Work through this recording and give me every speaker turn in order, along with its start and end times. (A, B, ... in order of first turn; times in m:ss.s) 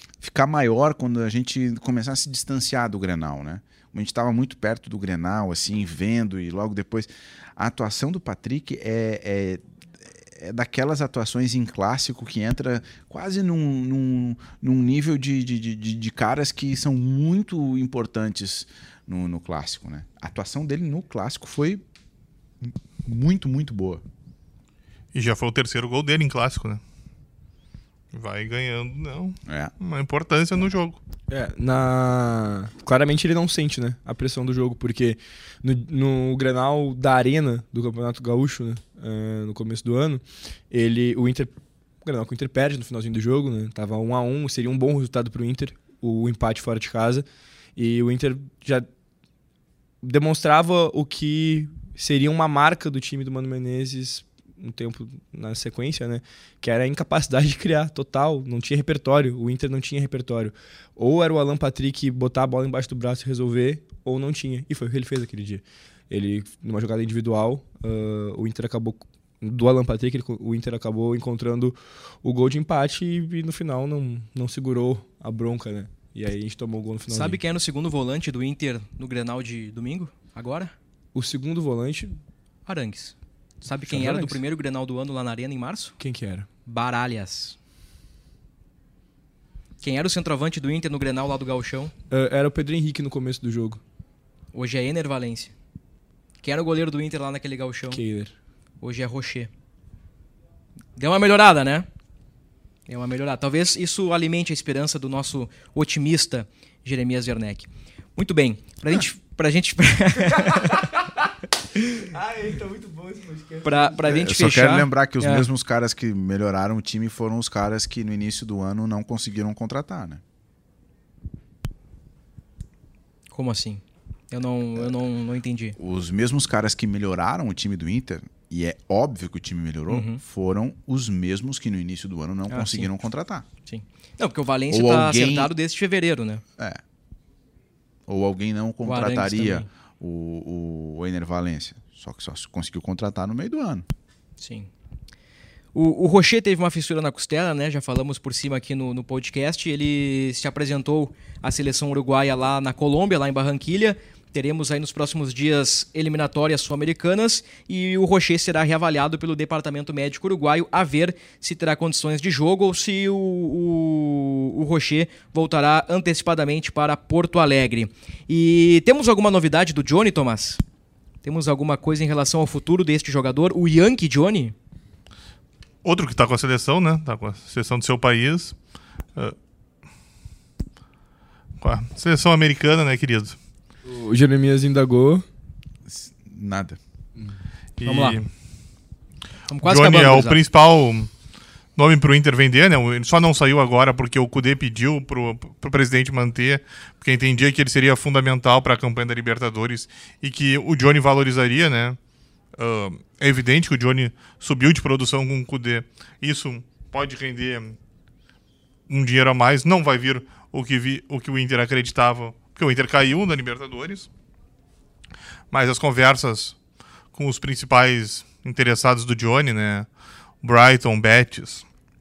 0:00.2-0:09.6 A
0:10.2-0:21.8 A
0:22.6-0:24.0 A
0:25.1-0:26.8 B
0:28.1-0:31.0 B
0:29.5-0:29.7 A
0:31.3-0:41.5 C
0:42.0-0:48.9 C
0:50.0-1:17.4 C
1:17.1-1:20.7 D
1:21.1-1:22.2 C
1:22.6-1:26.0 D
1:23.8-1:24.4 C
1:26.0-1:26.5 C
1:26.6-1:27.6 D
1:29.8-1:31.9 D
1:32.1-1:33.8 C
1:34.5-1:35.5 D
1:36.4-1:38.0 D
1:37.9-1:38.3 C
1:38.8-1:39.5 D
1:41.0-1:41.9 D
1:42.9-1:50.9 D
1:50.5-1:51.0 C
1:51.7-1:52.1 D
1:52.0-1:54.1 C
1:53.6-1:55.5 D
1:54.0-2:00.2 A
2:03.3-2:05.8 D
2:05.8-2:13.4 A
2:09.9-2:10.2 D
2:12.5-2:12.9 D
2:13.6-2:16.4 D
2:14.7-2:15.5 A
2:18.1-2:23.9 A
2:18.8-2:19.7 D
2:24.4-2:24.7 D
2:25.7-2:50.6 D
2:51.2-2:54.6 D
2:55.8-2:58.6 B
3:01.6-3:03.4 B
3:03.8-3:05.3 C
3:05.9-3:06.8 A
3:07.8-3:08.3 B
3:07.8-3:08.2 D
3:09.5-3:10.4 D
3:09.6-3:11.1 B
3:11.8-3:22.0 B
3:22.6-3:27.8 B
3:28.9-3:34.1 B
3:35.5-3:36.6 B
3:37.1-3:39.9 B
3:40.4-3:41.6 B